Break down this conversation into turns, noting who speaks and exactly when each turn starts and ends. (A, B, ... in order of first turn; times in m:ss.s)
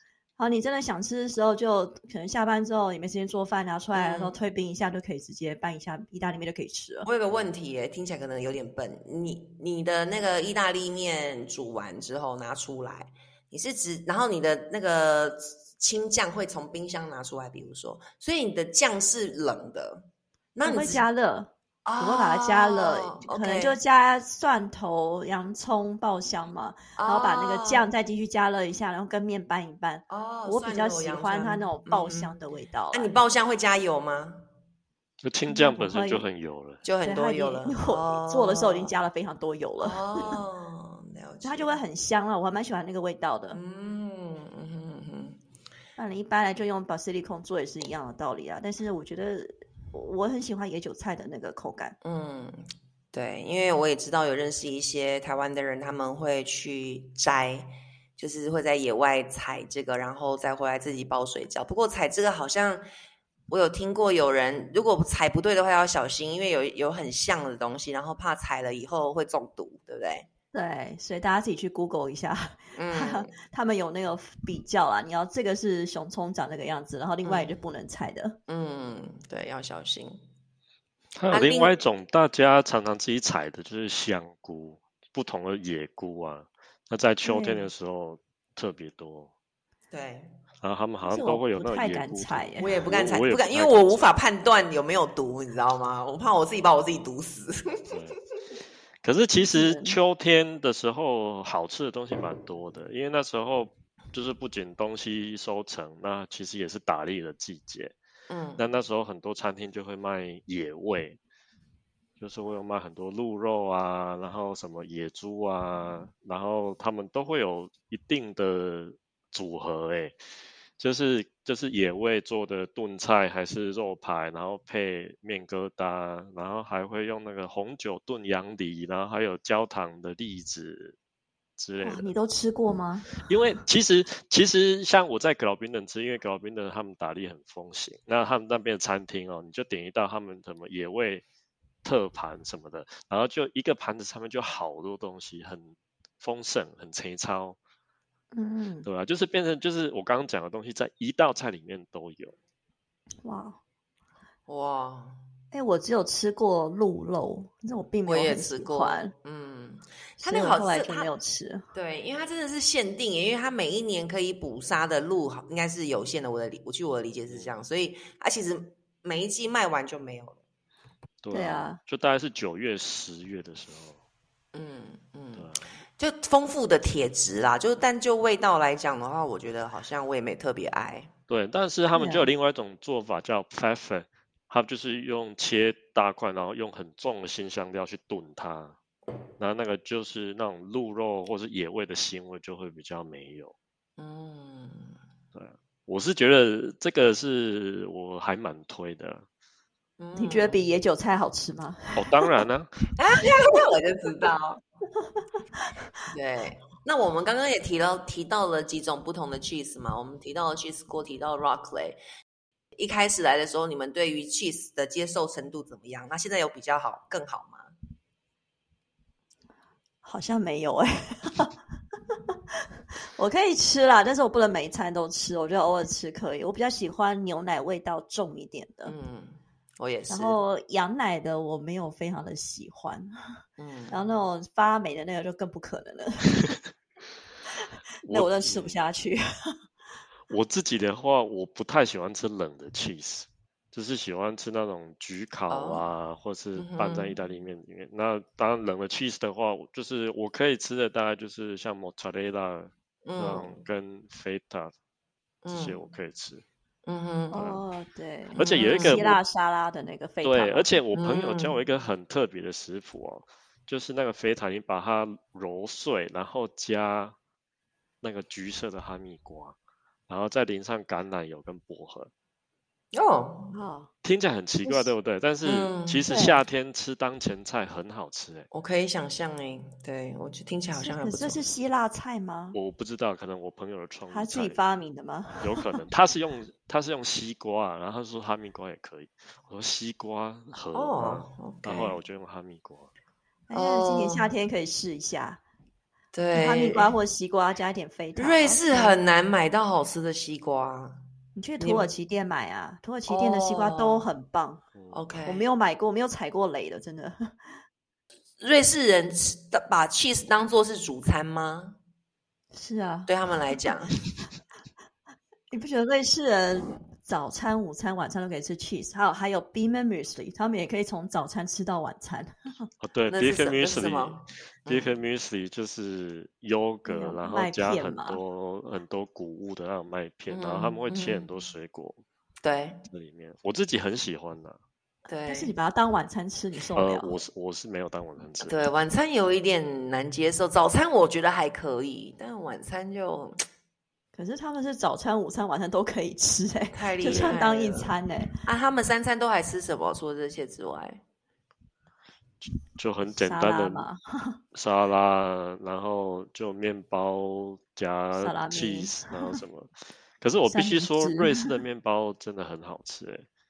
0:00.4-0:07.1 A
0:03.9-0:04.4 B
0:07.0-0:21.0 B
0:20.6-0:33.1 A
0:21.8-0:23.8 B
0:27.0-0:27.9 B
0:30.1-0:32.4 B
0:32.9-0:34.4 B
0:35.2-0:36.8 C
0:35.5-0:36.3 A
0:36.8-0:38.9 B
0:37.0-0:40.4 A
0:39.8-0:41.8 B
0:41.4-0:43.6 A
0:43.5-0:45.4 B
0:46.0-0:51.9 A
0:52.0-1:02.9 B
1:03.5-1:10.3 B
1:10.5-1:18.4 A
1:12.7-1:13.3 B
1:17.2-1:17.5 B
1:18.5-1:20.2 B
1:21.1-1:29.3 C
1:21.3-1:21.8 B
1:27.2-1:27.7 A
1:29.9-1:30.3 B
1:30.6-1:34.1 C
1:31.0-1:32.8 A
1:32.6-1:38.0 B
1:37.9-1:38.2 C
1:39.0-1:47.9 C
1:39.4-1:40.0 A
1:48.3-1:48.6 B
1:48.6-1:51.2 C
1:52.2-2:00.2 C
2:00.8-2:11.0 C
2:11.6-2:12.1 C
2:11.8-2:13.2 A
2:13.2-2:21.2 C
2:21.8-2:27.6 C
2:28.3-2:28.9 A
2:28.8-2:32.3 C
2:33.2-2:33.6 A
2:34.5-2:35.2 B
2:35.5-2:39.1 A
2:38.0-2:41.1 B
2:40.2-2:41.6 A
2:41.7-2:50.4 B
2:51.2-2:54.0 C
2:51.3-2:51.8 A
2:54.5-3:01.1 B
2:55.3-2:55.6 C
3:01.3-3:08.8 C
3:01.9-3:02.3 A
3:09.4-3:13.5 C
3:14.0-3:15.0 B
3:15.3-3:19.2 C
3:20.0-3:20.6 B
3:20.2-3:22.0 A
3:21.9-3:22.7 C
3:23.0-3:24.6 B
3:26.1-3:32.0 B
3:32.8-3:37.7 B
3:40.0-3:41.5 A
3:43.2-3:48.9 A
3:48.8-3:50.4 B
3:50.1-3:53.1 A
3:53.6-3:54.0 B
3:53.9-3:56.5 A
3:58.0-3:58.8 C
3:58.0-3:59.2 A
4:00.3-4:14.7 C
4:05.5-4:05.8 B
4:06.6-4:07.2 B
4:13.0-4:13.5 B
4:15.4-4:15.8 B
4:15.5-4:16.4 C
4:16.8-4:17.4 B
4:17.3-4:20.7 A
4:17.3-4:17.6 C
4:18.3-4:19.2 C
4:18.4-4:19.0 B
4:20.2-4:27.2 C
4:20.9-4:21.6 B
4:28.0-4:29.6 C
4:30.1-4:32.1 C
4:32.9-4:33.5 B
4:33.5-4:33.9 A
4:34.0-4:38.5 C
4:34.6-4:34.9 A
4:35.4-4:36.0 B
4:36.1-4:36.4 A
4:38.5-4:41.5 B
4:40.8-4:42.6 A
4:42.5-4:44.6 C
4:44.1-4:45.7 A
4:45.4-4:52.9 C
4:50.7-4:52.0 B
4:53.5-4:55.4 A
4:53.5-4:54.3 B
4:56.1-4:56.9 B
4:56.3-4:59.0 A
4:58.2-5:01.0 B
5:01.4-5:04.6 A
5:01.6-5:01.9 B
5:03.1-5:04.1 B
5:04.9-5:05.4 B
5:05.2-5:07.3 A
5:08.4-5:11.8 B
5:12.5-5:13.1 A
5:13.1-5:14.0 B
5:15.5-5:22.3 A
5:22.8-5:32.0 C
5:23.1-5:24.9 B
5:26.8-5:28.2 A
5:30.3-5:31.3 B
5:32.4-5:32.8 B
5:32.9-5:34.6 C
5:35.1-5:35.5 B
5:35.3-5:37.2 A
5:36.7-5:38.6 C
5:38.4-5:43.4 B
5:44.1-5:48.3 A
5:46.7-5:51.0 B
5:47.0-5:47.4 C
5:52.8-5:53.8 C
5:53.1-5:54.4 A
5:54.5-6:03.3 C
5:58.2-5:59.4 A
6:00.5-6:01.5 A